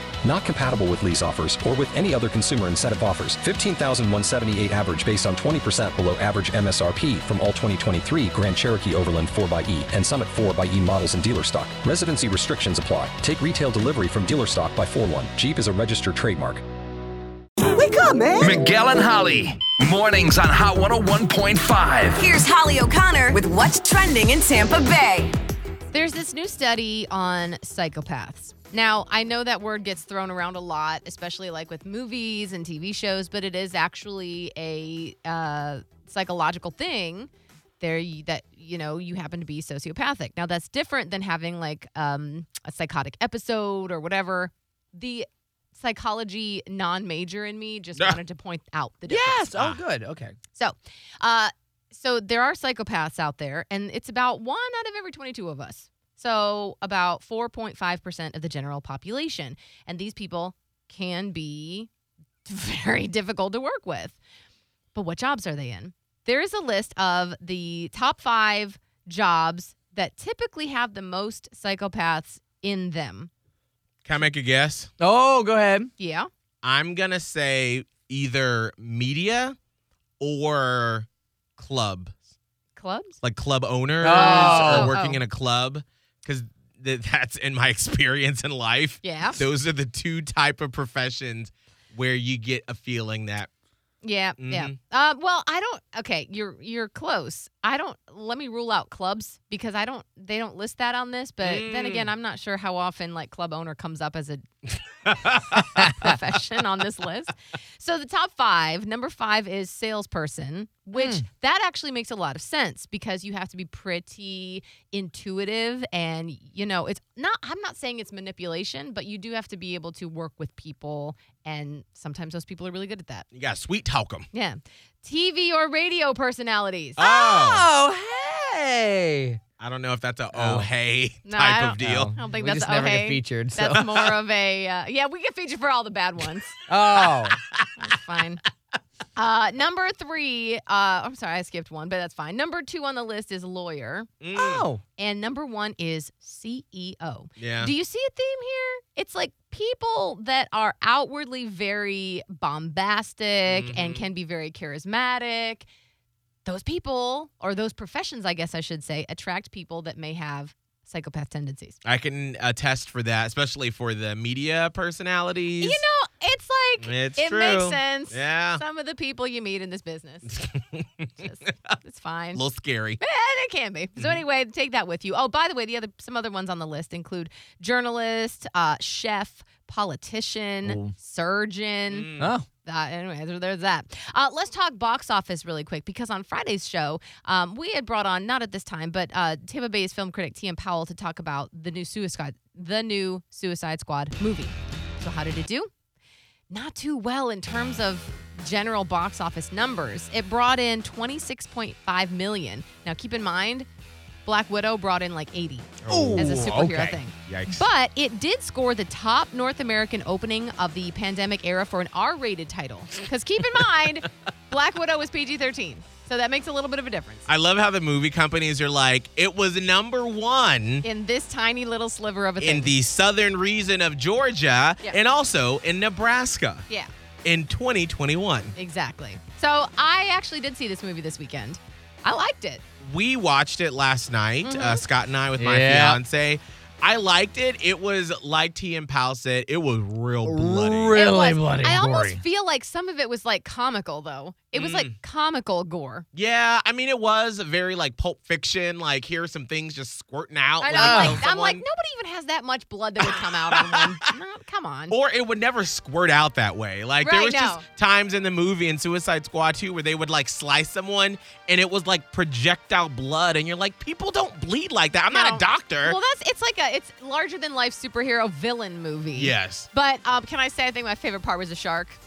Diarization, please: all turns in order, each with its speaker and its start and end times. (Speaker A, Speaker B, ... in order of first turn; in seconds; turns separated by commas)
Speaker A: 0.2-16.6, Speaker B: 18.4-22.2, Speaker C: 22.2-25.4, Speaker D: 25.9-49.5, Speaker E: 49.1-50.4, Speaker F: 49.5-49.8, Speaker D: 50.5-61.9, Speaker D: 62.5-64.2, Speaker D: 64.9-73.3, Speaker F: 74.0-74.9, Speaker E: 75.0-75.9, Speaker D: 76.0-76.3, Speaker F: 76.6-79.6, Speaker F: 80.2-81.1, Speaker F: 81.6-82.2, Speaker D: 82.8-83.2, Speaker F: 83.2-93.5, Speaker E: 84.0-85.0, Speaker D: 84.1-85.2, Speaker D: 89.0-89.4, Speaker D: 94.0-104.5, Speaker F: 94.4-94.7, Speaker F: 101.4-102.1, Speaker D: 105.5-123.3, Speaker F: 123.3-124.3, Speaker D: 124.3-127.1, Speaker F: 127.0-127.7, Speaker E: 127.0-129.4, Speaker F: 129.6-132.1, Speaker E: 130.3-130.7, Speaker D: 131.2-136.6, Speaker E: 131.8-134.0, Speaker E: 136.7-137.4, Speaker D: 137.8-138.4, Speaker D: 139.2-144.2, Speaker F: 144.2-144.7, Speaker E: 144.3-144.8, Speaker D: 145.0-155.7, Speaker F: 147.4-147.7, Speaker F: 153.5-154.1, Speaker D: 156.4-161.8, Speaker F: 161.8-165.8, Speaker D: 165.6-170.5, Speaker F: 166.8-168.6, Speaker D: 171.2-172.4, Speaker F: 172.3-173.0, Speaker D: 173.0-195.7, Speaker E: 180.7-180.9, Speaker F: 181.9-182.3, Speaker E: 182.2-182.5, Speaker D: 196.5-203.7, Speaker D: 204.3-217.3, Speaker F: 205.8-206.6, Speaker E: 205.9-207.0, Speaker F: 207.2-207.7, Speaker F: 217.3-220.8, Speaker D: 220.8-222.8, Speaker F: 222.4-226.6, Speaker F: 227.2-228.5, Speaker D: 228.6-232.6, Speaker F: 232.8-241.0, Speaker D: 234.4-234.8, Speaker E: 235.4-236.0, Speaker E: 240.2-242.2, Speaker D: 240.9-246.1, Speaker F: 244.5-244.9, Speaker F: 246.2-251.6, Speaker D: 250.6-254.9, Speaker E: 250.8-251.2, Speaker F: 253.1-254.0, Speaker F: 254.9-266.0, Speaker D: 257.0-257.6, Speaker D: 265.1-272.0, Speaker F: 269.1-269.7